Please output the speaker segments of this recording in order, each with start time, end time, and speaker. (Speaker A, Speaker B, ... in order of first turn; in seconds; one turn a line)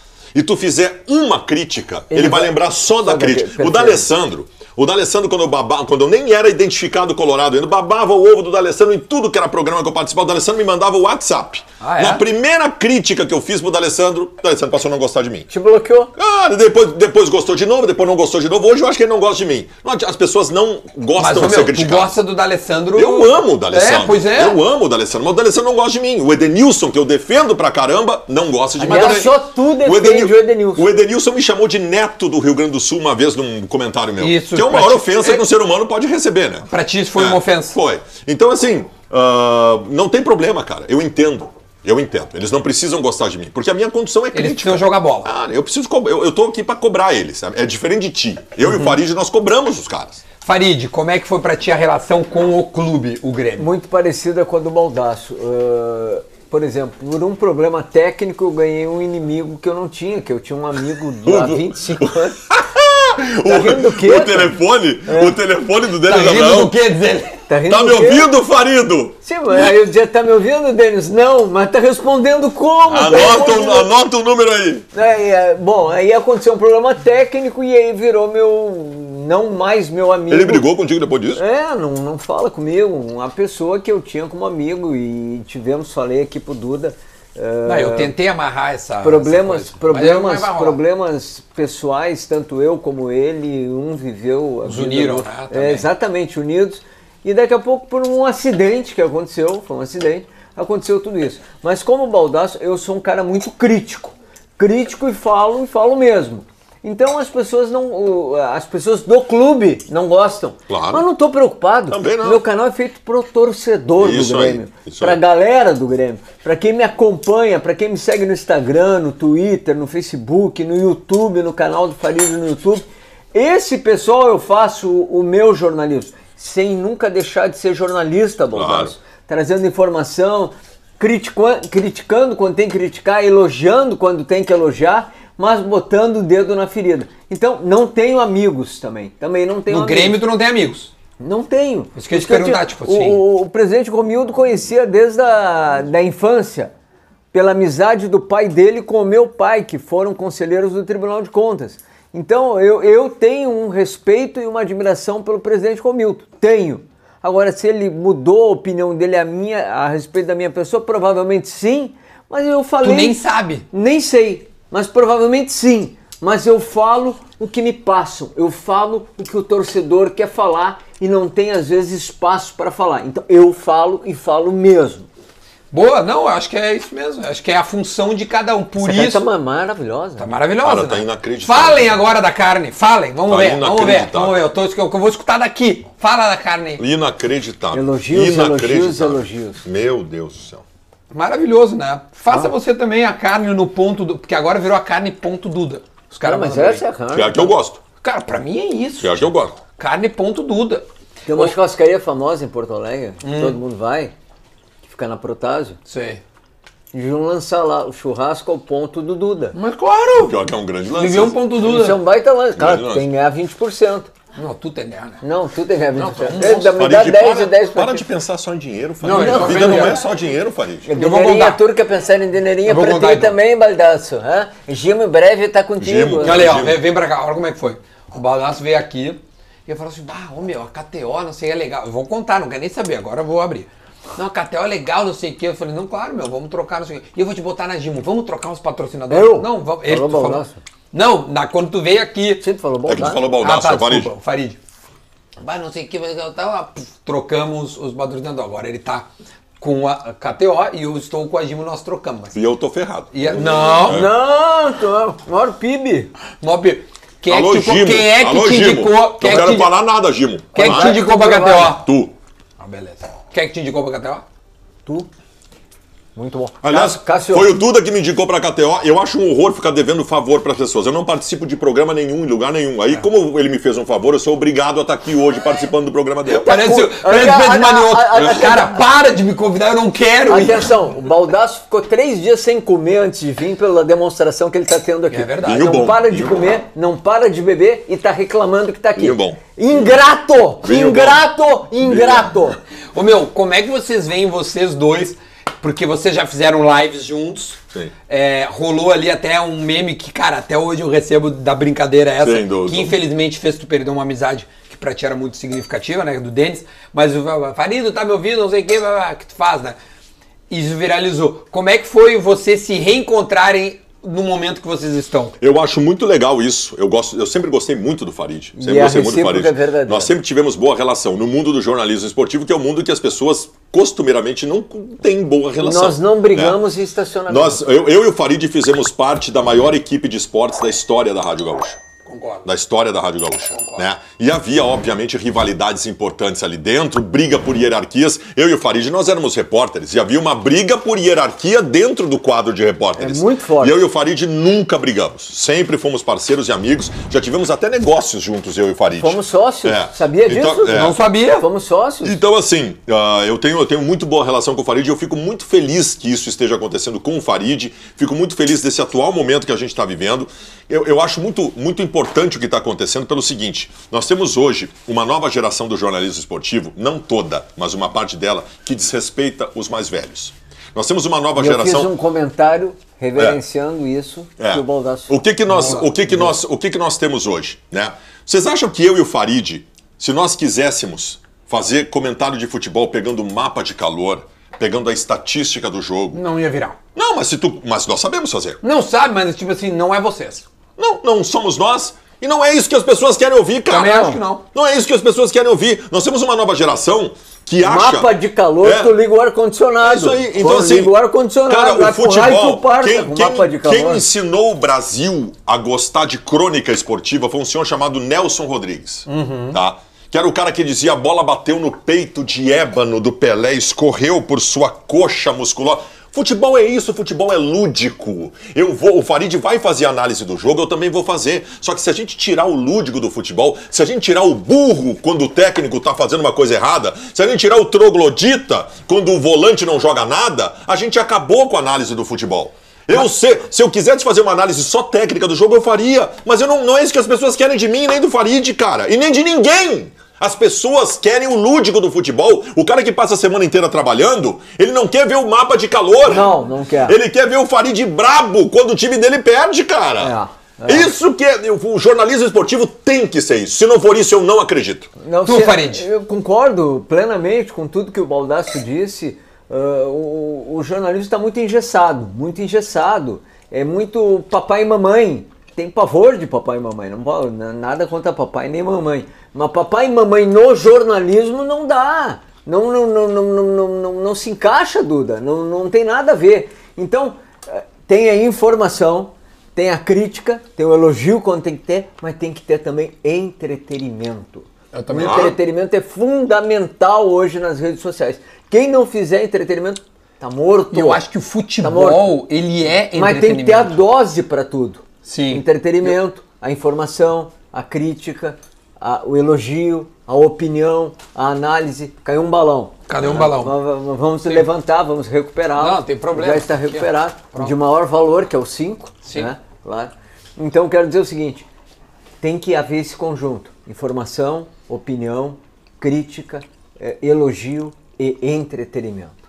Speaker A: 0.3-15.5
Speaker B: 2.1-4.1
Speaker C: 11.8-12.2
Speaker B: 15.5-16.1
Speaker A: 16.2-22.2
Speaker C: 21.2-24.6
Speaker A: 22.9-50.2
Speaker B: 28.8-30.9
Speaker C: 34.2-35.5
Speaker C: 36.7-37.8
Speaker C: 44.3-45.3
Speaker C: 48.7-49.0
Speaker C: 50.4-53.7
Speaker B: 53.6-62.4
Speaker A: 61.2-66.8
Speaker B: 63.4-65.4
Speaker C: 66.0-67.4
Speaker B: 67.5-68.3
Speaker A: 67.7-69.7
Speaker B: 69.2-73.9
Speaker A: 72.9-74.9
Speaker B: 74.9-80.7
Speaker A: 80.3-81.4
Speaker B: 81.3-88.1
Speaker C: 87.7-90.8
Speaker B: 89.0-140.2
Speaker C: 94.7-95.9
Speaker A: 110.7-111.0
Speaker A: 111.9-112.4
Speaker A: 114.0-115.2
Speaker A: 128.5-128.9
Speaker C: 139.7-140.9
Speaker B: 141.2-146.7
Speaker C: 142.0-143.2
Speaker B: 147.3-163.2
Speaker C: 162.8-163.7
Speaker B: 163.7-175.1
Speaker C: 175.7-179.2
Speaker B: 178.8-180.3
Speaker C: 180.2-186.8
Speaker A: 180.6-182.0
Speaker A: 183.3-184.4
Speaker A: 186.8-190.6
Speaker B: 187.7-189.6
Speaker C: 191.1-196.8
Speaker B: 196.2-197.5
Speaker A: 197.1-197.8
Speaker C: 198.0-201.5
Speaker A: 199.0-199.6
Speaker B: 201.3-204.1
Speaker C: 203.2-203.6
Speaker B: 204.8-205.8
Speaker C: 205.9-206.2
Speaker B: 206.9-209.6
Speaker C: 209.5-210.4
Speaker A: 210.2-211.4
Speaker C: 210.9-212.0
Speaker B: 211.6-214.1
Speaker A: 212.6-213.1
Speaker C: 214.4-215.2
Speaker B: 215.2-218.1
Speaker C: 215.9-216.8
Speaker A: 216.8-220.9
Speaker C: 219.0-220.0
Speaker B: 219.1-220.0
Speaker B: 220.9-226.4
Speaker C: 220.9-221.6
Speaker C: 222.7-223.4
Speaker A: 225.8-226.8
Speaker C: 226.2-242.4
Speaker B: 239.1-240.6
Speaker B: 242.4-243.3
Speaker A: 242.9-244.1
Speaker C: 243.3-244.6
Speaker C: 245.4-249.1
Speaker C: 249.6-252.4
Speaker A: 252.3-254.1
Speaker C: 253.1-254.1
Speaker B: 253.9-256.1
Speaker C: 256.4-259.7
Speaker A: 257.3-261.1
Speaker C: 260.5-261.9
Speaker B: 260.6-261.8
Speaker A: 261.6-262.1
Speaker C: 262.6-264.2
Speaker B: 266.2-267.6
Speaker A: 266.6-276.5
Speaker C: 276.3-280.7
Speaker B: 276.4-278.8
Speaker B: 280.3-292.6
Speaker C: 285.1-285.8
Speaker A: 285.4-286.5
Speaker A: 289.0-289.9
Speaker A: 290.6-291.2
Speaker A: 291.8-292.3
Speaker C: 292.9-309.8
Speaker A: 302.2-303.0
Speaker C: 310.5-315.4
Speaker A: 315.4-326.6
Speaker B: 318.6-320.1
Speaker B: 325.6-327.7
Speaker A: 327.3-331.8
Speaker C: 332.1-332.5
Speaker A: 332.4-351.0
Speaker C: 333.5-333.9
Speaker B: 343.0-343.8
Speaker B: 349.0-352.2
Speaker C: 350.7-351.5
Speaker A: 352.0-371.9
Speaker B: 371.4-376.2
Speaker A: 374.4-386.2
Speaker C: 375.5-375.9
Speaker C: 386.1-386.8
Speaker A: 386.9-388.6
Speaker C: 388.6-390.5
Speaker A: 390.8-399.0
Speaker C: 393.7-394.4
Speaker B: 397.6-404.1
Speaker A: 399.8-446.3
Speaker C: 409.1-409.6
Speaker B: 446.1-447.0
Speaker A: 446.9-450.1
Speaker B: 450.0-450.9
Speaker A: 450.7-454.9
Speaker B: 455.0-491.0
Speaker C: 455.2-455.9
Speaker C: 484.7-485.3
Speaker A: 485.0-485.4
Speaker C: 490.7-493.8
Speaker B: 491.6-492.2
Speaker B: 492.9-511.5
Speaker C: 495.1-495.9
Speaker C: 502.9-503.6
Speaker A: 503.0-503.3
Speaker C: 505.6-507.6
Speaker C: 509.1-509.3
Speaker B: 512.2-519.1